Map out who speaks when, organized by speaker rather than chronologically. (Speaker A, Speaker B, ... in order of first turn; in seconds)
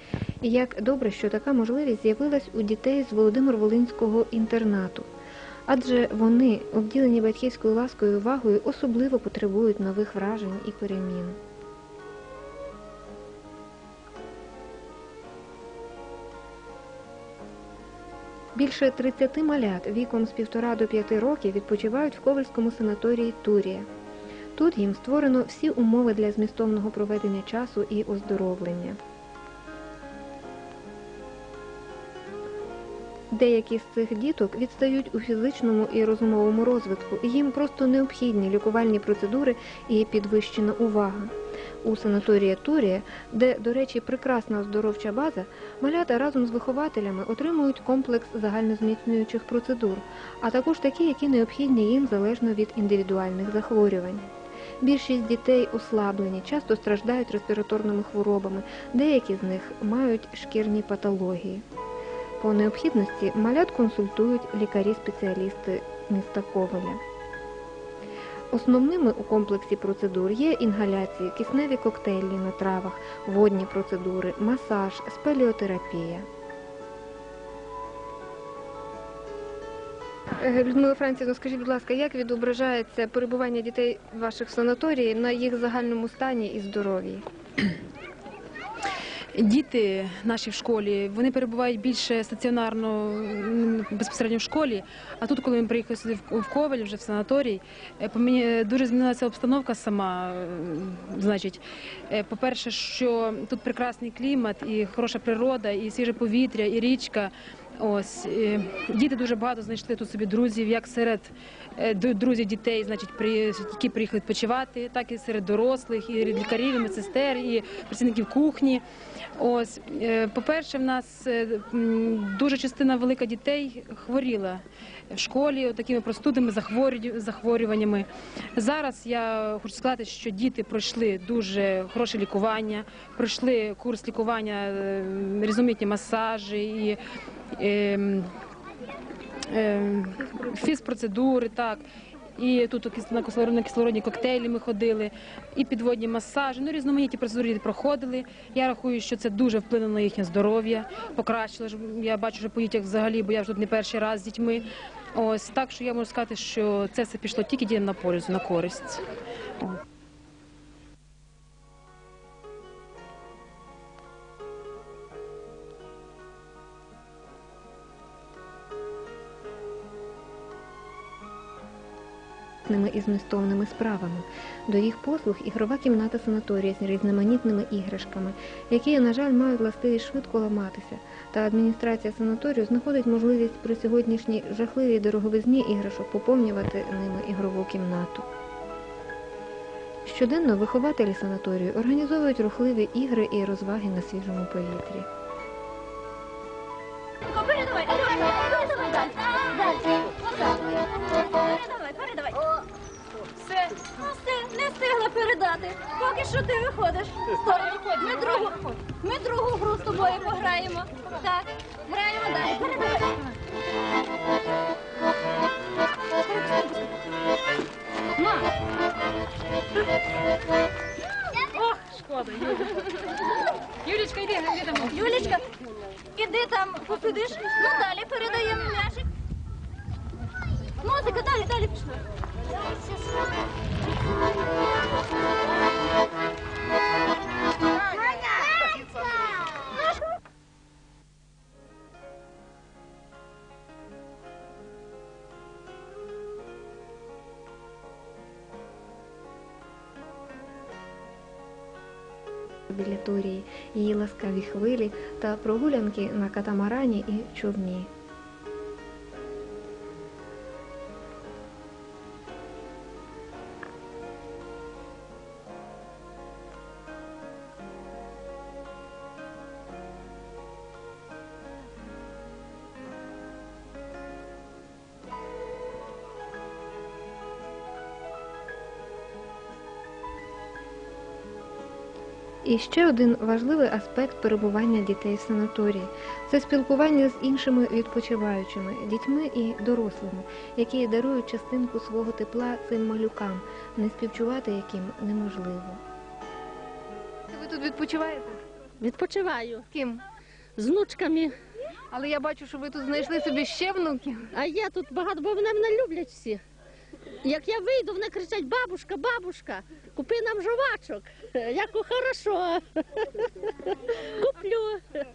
Speaker A: 0.4-5.1, 5.7-11.4, 18.5-23.9, 24.5-29.0, 33.3-54.3, 54.8-61.6, 62.4-67.0, 68.5-76.2, 80.4-87.2, 172.7-188.2, 190.0-195.1, 252.7-257.9, 282.4-295.8, 297.3-298.4, 299.7-300.0, 301.9-304.3
Speaker B: 89.3-118.8, 119.4-137.0, 137.6-138.3, 139.5-141.8, 142.3-159.0, 203.4-203.7, 207.5-208.8, 216.4-216.7, 221.6-222.8, 223.8-225.3
Speaker C: 197.2-202.6, 203.8-213.2, 218.2-218.4, 224.9-225.5, 226.0-229.1, 230.8-232.0
Speaker D: 298.8-299.7, 300.6-301.3, 304.3-306.4, 307.2-314.8